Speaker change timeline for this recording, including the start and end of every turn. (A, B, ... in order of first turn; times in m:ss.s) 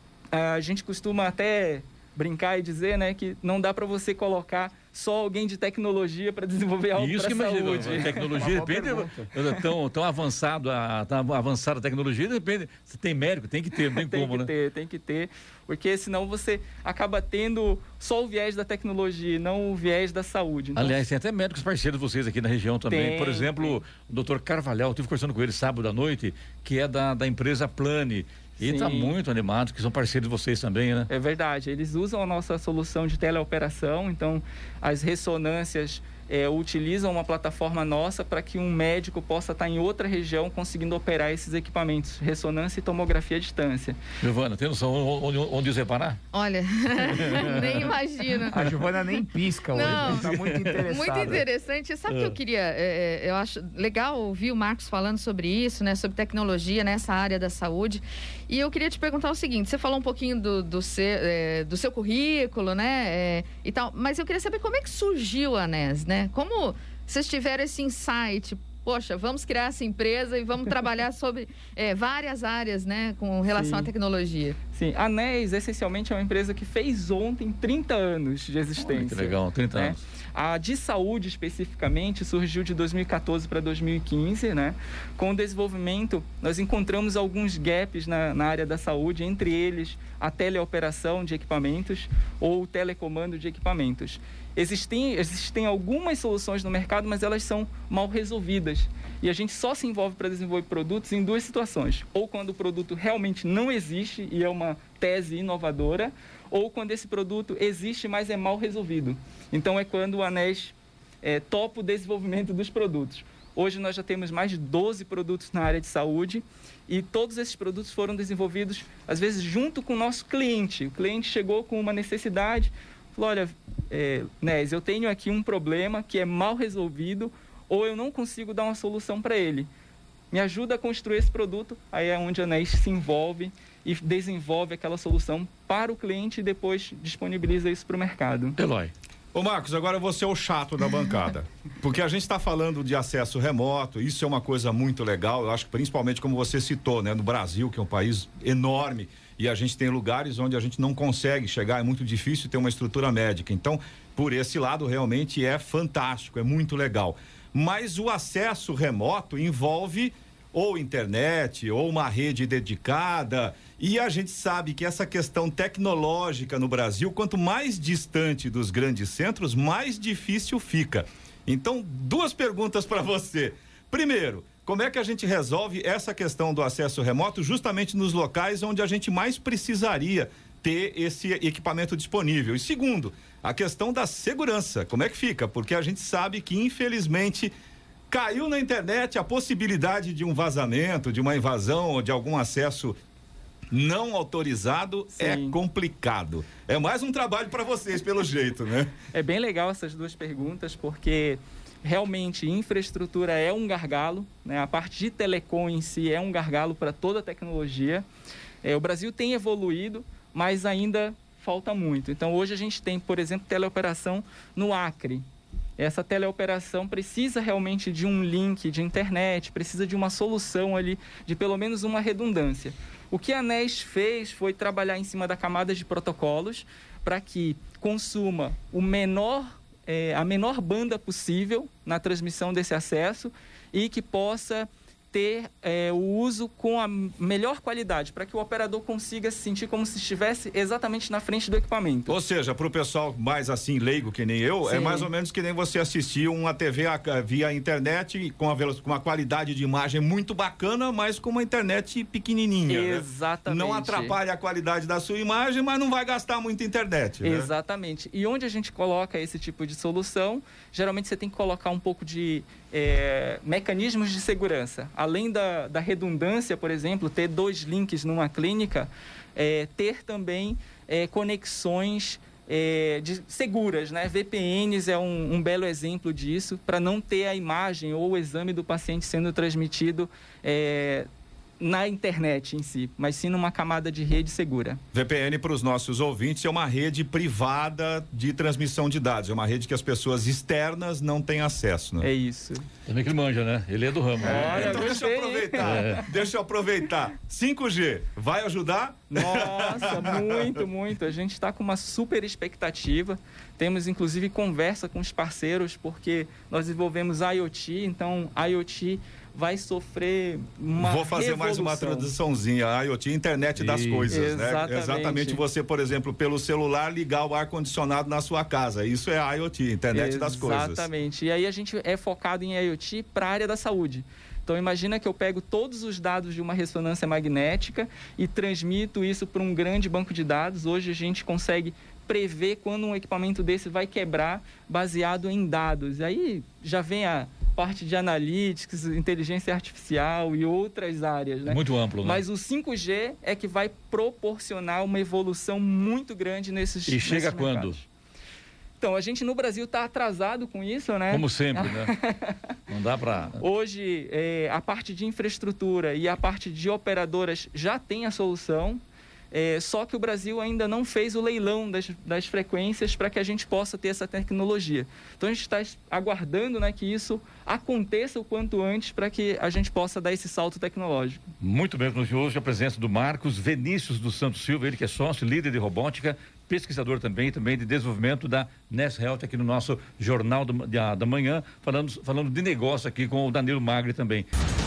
0:00.3-0:08.5 A
0:06.9-0:14.5 B
0:08.2-0:09.3 C
0:13.7-0:21.0 A
0:20.7-0:31.1 B
0:22.8-0:23.8 A
0:28.6-0:29.2 A
0:31.1-0:44.0 A
0:44.2-0:46.2 B
0:46.3-0:48.5 D
0:47.0-0:48.7 B
0:48.5-0:51.4 C
0:49.7-0:50.2 D
0:49.7-0:50.8 B
0:50.8-1:14.6 D
0:52.1-0:52.4 B
1:13.5-1:13.9 A
1:14.7-2:09.7 A
1:18.8-1:20.0 B
2:10.3-2:18.6 A
2:18.6-2:18.9 B
2:19.3-3:07.5 E
3:08.1-3:13.0 E
3:13.7-3:18.9 E
3:15.1-3:15.6 A
3:19.0-3:28.0 A
3:28.6-3:35.2 A
3:35.8-4:02.1 A
4:02.1-4:17.5 E
4:04.6-4:05.1 A
4:12.6-4:14.2 A
4:17.2-4:41.1 A
4:41.6-4:44.8 A
4:44.9-4:52.1 E
4:52.0-4:52.7 A
4:52.8-4:54.9 B
4:54.2-4:56.0 A
4:54.2-5:00.2 E
4:55.6-4:56.0 B
4:59.1-5:12.1 A
5:10.8-5:20.8 E
5:13.7-5:13.9 B
5:14.1-5:15.4 A
5:19.9-5:47.9 A
5:41.4-5:42.2 B
5:46.8-5:47.8 B
5:48.8-5:52.6 A
5:51.1-5:51.9 B
5:52.7-5:53.4 B
5:53.4-5:58.8 A
5:59.3-6:11.3 A
6:11.4-6:24.3 B